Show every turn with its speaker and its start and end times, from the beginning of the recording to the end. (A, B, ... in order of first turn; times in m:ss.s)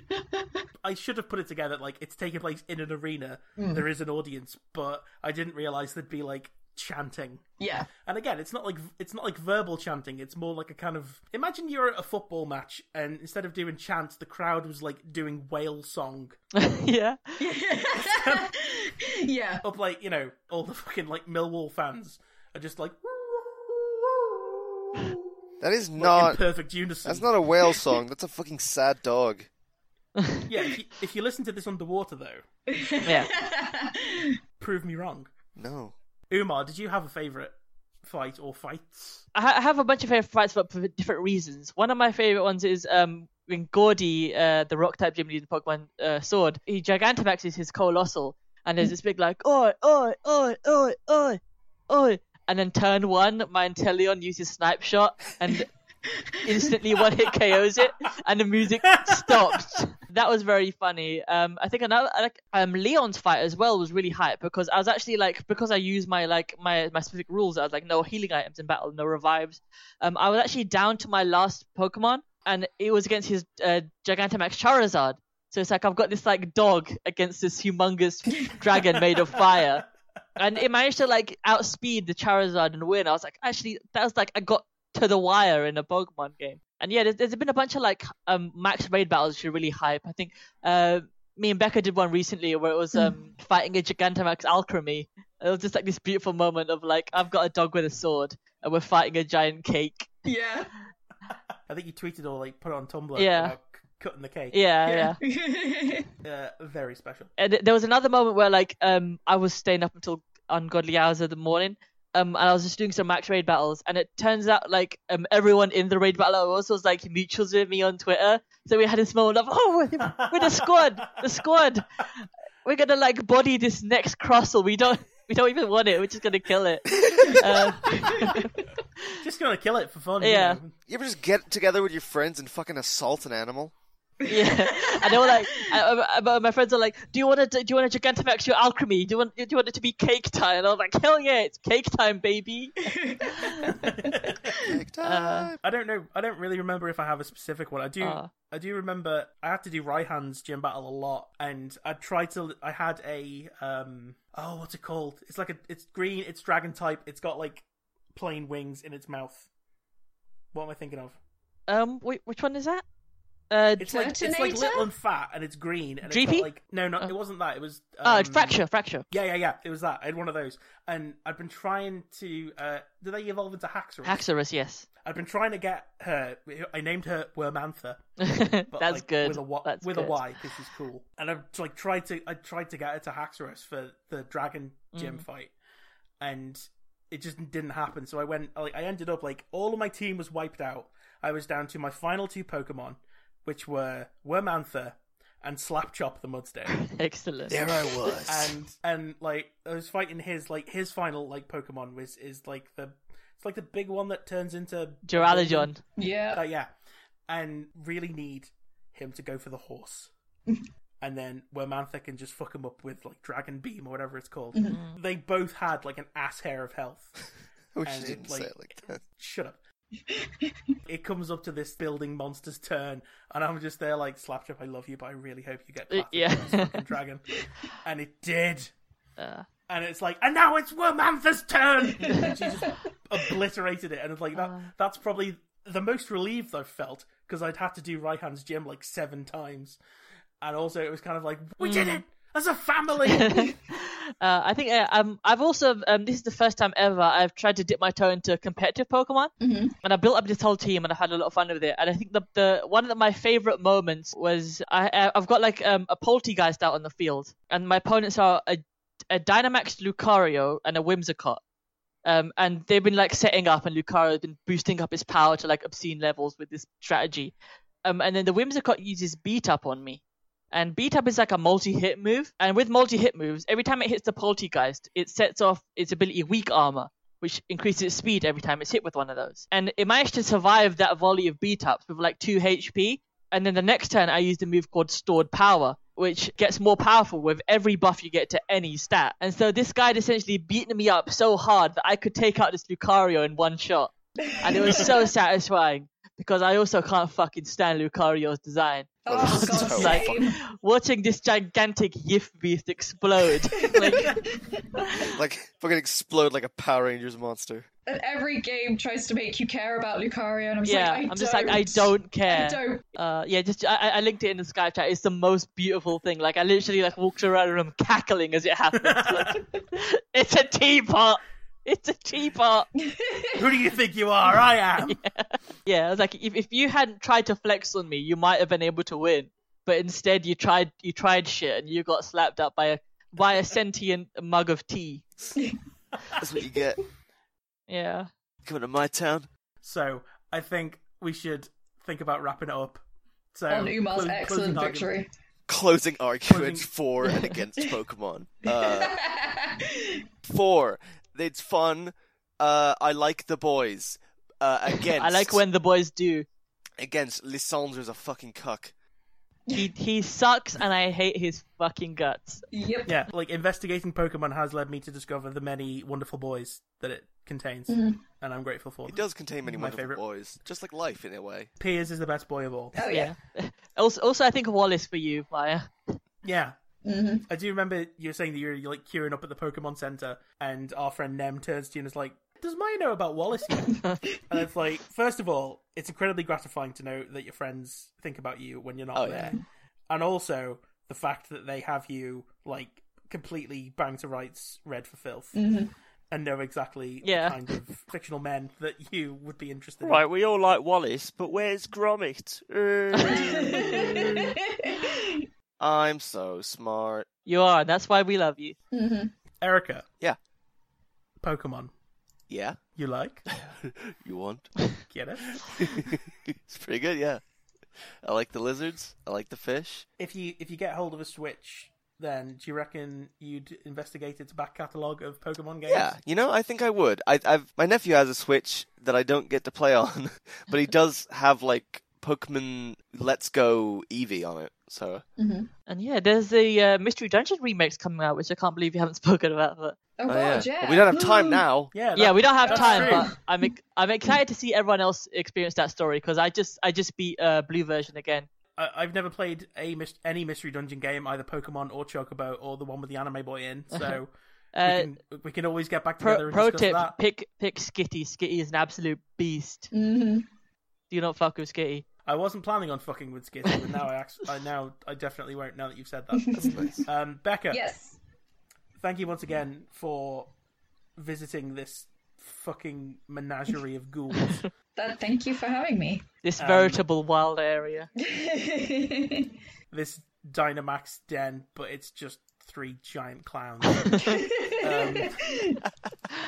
0:00.1-0:00.6 A
0:00.8-0:07.4 B
0:03.6-0:03.8 A
0:07.6-0:07.9 A
0:08.0-0:16.4 B
0:16.6-0:17.4 C
0:17.4-0:19.6 A
0:18.0-0:18.5 B
0:19.6-0:25.2 B
0:25.6-0:26.4 D
0:26.0-0:27.8 B
0:27.0-0:29.5 D
0:30.2-0:30.4 C
0:30.5-0:32.4 B
0:32.7-0:34.4 A
0:33.0-0:33.3 C
0:34.6-0:35.3 B
0:35.6-0:36.0 D
0:36.3-0:39.3 B
0:39.3-0:55.7 C
0:56.4-1:19.8 C
1:20.4-1:40.1 C
1:40.2-1:40.7 A
1:41.7-1:44.6 B
1:43.2-1:43.6 C
1:44.5-1:45.2 C
1:44.9-1:46.1 A
1:46.2-1:47.3 B
1:47.4-2:01.9 C
2:00.0-2:00.7 B
2:02.6-2:08.5 C
2:09.2-2:10.8 B
2:10.2-2:10.6 C
2:10.9-2:13.7 D
2:14.3-2:22.8 C
2:14.3-2:15.8 A
2:22.9-2:24.5 A
2:23.4-2:23.6 C
2:23.7-2:24.3 B
2:24.5-2:25.6 D
2:25.0-2:25.5 C
2:25.6-2:39.5 B
2:28.0-2:28.3 C
2:40.5-2:41.2 B
2:41.7-2:42.8 C
2:43.5-2:44.1 C
2:43.8-2:54.2 B
2:43.9-2:44.9 A
2:46.1-2:46.5 C
2:48.0-2:49.1 C
2:54.0-2:54.9 C
2:55.0-2:58.0 B
2:58.2-3:00.2 C
2:58.7-3:05.5 B
3:05.0-3:05.2 C
3:06.2-3:16.8 B
3:16.8-3:17.7 C
3:17.5-3:18.6 D
3:18.2-3:25.7 B
3:25.1-3:25.8 C
3:26.0-3:26.4 A
3:26.3-3:26.7 B
3:27.3-3:30.1 B
3:31.0-3:37.2 B
3:34.5-3:34.8 A
3:37.8-3:39.0 D
3:37.8-3:39.6 B
3:40.1-3:40.6 A
3:40.9-3:48.7 B
3:45.9-3:46.8 C
3:49.2-3:49.5 C
3:49.7-3:59.8 B
3:51.9-3:52.8 A
3:52.1-3:52.4 C
3:54.4-3:54.7 C
4:00.4-4:03.6 B
4:01.6-4:02.0 C
4:03.2-4:21.4 C
4:09.4-4:09.8 A
4:22.0-5:04.1 C
4:54.4-4:54.9 A
4:59.0-5:00.4 A
4:59.1-5:00.2 D
5:03.6-5:05.1 A
5:05.0-5:07.7 D
5:07.9-5:12.8 A
5:10.6-5:22.7 C
5:18.8-5:19.4 B
5:22.9-5:23.4 A
5:23.3-5:25.0 B
5:24.9-5:35.1 C
5:36.2-5:36.8 D
5:37.7-5:38.1 C
5:38.4-5:39.3 D
5:39.6-5:42.8 B
5:43.3-5:44.9 B
5:43.5-5:45.1 A
5:45.5-5:49.0 D
5:46.3-5:46.7 B
5:48.5-5:50.0 A
5:50.2-5:55.4 D
5:55.0-5:56.3 C
5:56.8-5:58.7 D
5:59.5-6:02.4 C
6:02.5-6:03.0 A
6:02.9-6:10.0 B
6:07.7-6:08.0 A
6:08.9-6:11.5 D
6:11.6-6:12.8 B
6:12.8-6:13.1 A
6:12.9-6:15.9 C
6:16.2-6:16.6 B
6:16.8-6:17.2 A
6:17.3-6:35.5 B
6:29.0-6:29.3 D
6:35.4-6:35.7 A
6:36.1-6:40.0 B
6:37.0-6:37.4 C
6:39.8-6:44.4 E
6:43.0-6:43.9 C
6:43.1-6:45.2 A
6:45.6-6:47.1 D
6:47.3-6:48.6 C
6:48.7-6:49.1 A
6:49.4-6:49.8 B
6:51.2-6:51.7 B
6:52.3-6:52.6 D
6:52.8-6:53.2 B
6:53.4-6:54.6 D
6:54.9-6:55.9 B
6:55.3-6:57.2 D
6:58.0-6:59.9 D
7:00.0-7:06.0 B
7:05.7-7:15.0 D
7:15.2-7:15.5 A
7:15.7-7:19.8 C
7:20.0-7:21.4 A
7:20.1-7:21.7 D
7:21.7-7:23.2 B
7:22.0-7:28.3 C
7:22.5-7:23.2 A
7:28.6-7:34.1 B
7:33.7-7:34.0 C
7:34.5-7:34.9 C
7:34.6-7:37.0 B
7:36.0-7:39.7 C
7:39.7-7:40.3 A
7:40.9-7:41.8 C
7:42.0-7:47.6 B
7:46.2-7:46.6 A
7:46.4-7:46.8 D
7:47.5-7:48.0 A
7:48.8-7:50.3 B
7:51.0-7:54.5 B
7:54.2-7:54.5 C
7:54.8-7:56.0 A
7:56.2-7:57.9 C
7:56.4-7:56.8 B
7:58.0-7:59.3 A
7:59.7-8:05.4 B
8:04.0-8:05.6 A